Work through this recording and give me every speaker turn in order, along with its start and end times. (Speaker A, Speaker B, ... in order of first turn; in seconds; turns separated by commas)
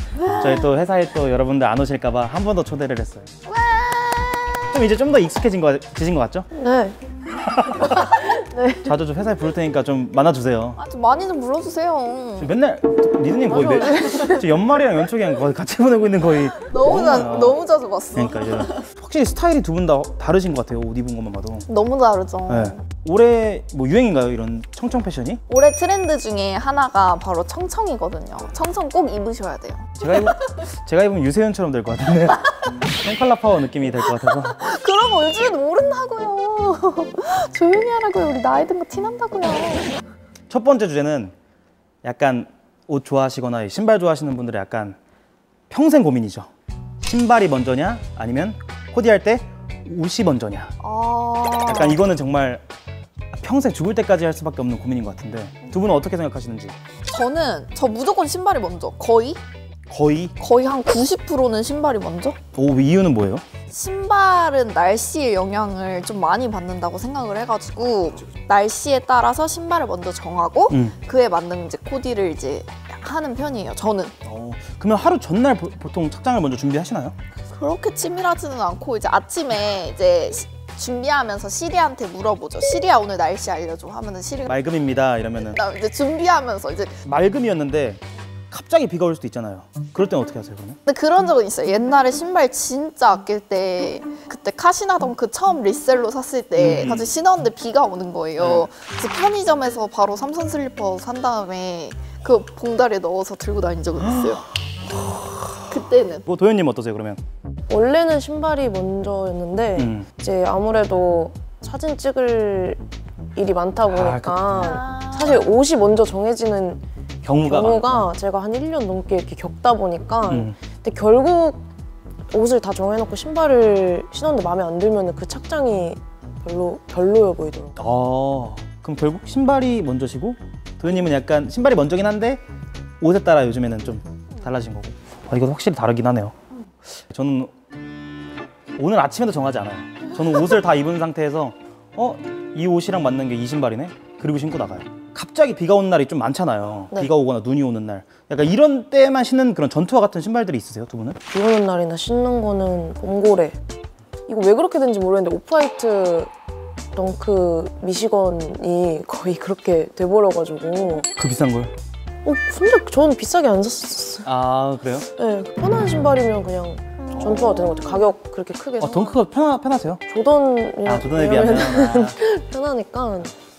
Speaker A: 0.2-0.7, Speaker B: 0.4-3.3, Speaker A: 3.5-4.6, Speaker B: 4.7-6.5, Speaker C: 6.5-7.0, Speaker B: 7.4-8.2, Speaker C: 7.8-8.9, Speaker B: 8.8-10.8, Speaker A: 10.8-12.5, Speaker B: 12.4-17.6, Speaker C: 13.5-14.2, Speaker A: 13.9-14.4, Speaker A: 16.5-18.9, Speaker B: 18.1-21.7, Speaker A: 21.7-22.8, Speaker B: 22.5-25.4, Speaker A: 25.5-30.6, Speaker B: 30.0-34.6, Speaker A: 34.3-39.9, Speaker B: 40.5-41.3, Speaker B: 42.0-45.0, Speaker B: 45.7-46.5, Speaker B: 47.0-50.7, Speaker A: 50.8-52.0, Speaker B: 51.7-52.6, Speaker B: 53.3-56.8, Speaker A: 57.1-59.4, Speaker B: 59.9-60.3, Speaker A: 60.4-62.4, Speaker B: 62.5-63.4, Speaker A: 63.7-74.2, Speaker B: 74.2-77.2, Speaker A: 77.5-84.6, Speaker B: 84.5-85.6, Speaker A: 85.5-87.0, Speaker B: 87.0-90.8, Speaker A: 90.9-104.5, Speaker B: 96.6-97.1, Speaker B: 98.4-98.7, Speaker B: 104.0-104.4, Speaker B: 104.9-105.8, Speaker A: 105.7-106.2, Speaker B: 106.3-107.2, Speaker C: 107.7-112.8, Speaker B: 109.8-110.1, Speaker C: 113.3-116.8, Speaker B: 113.9-114.8, Speaker A: 114.5-115.5, Speaker B: 117.2-118.1, Speaker C: 117.4-121.6, Speaker B: 120.3-120.6, Speaker C: 122.3-128.1, Speaker B: 127.8-132.4, Speaker B: 133.0-136.3, Speaker B: 137.1-137.5, Speaker B: 138.8-151.2, Speaker C: 151.3-153.6, Speaker C: 154.3-156.3, Speaker C: 156.9-161.1, Speaker B: 161.2-161.7, Speaker C: 162.2-164.3, Speaker B: 164.2-165.1, Speaker C: 165.2-169.2, Speaker A: 167.0-168.0, Speaker B: 167.1-167.8, Speaker B: 168.8-170.0, Speaker C: 170.1-173.3, Speaker B: 170.8-172.2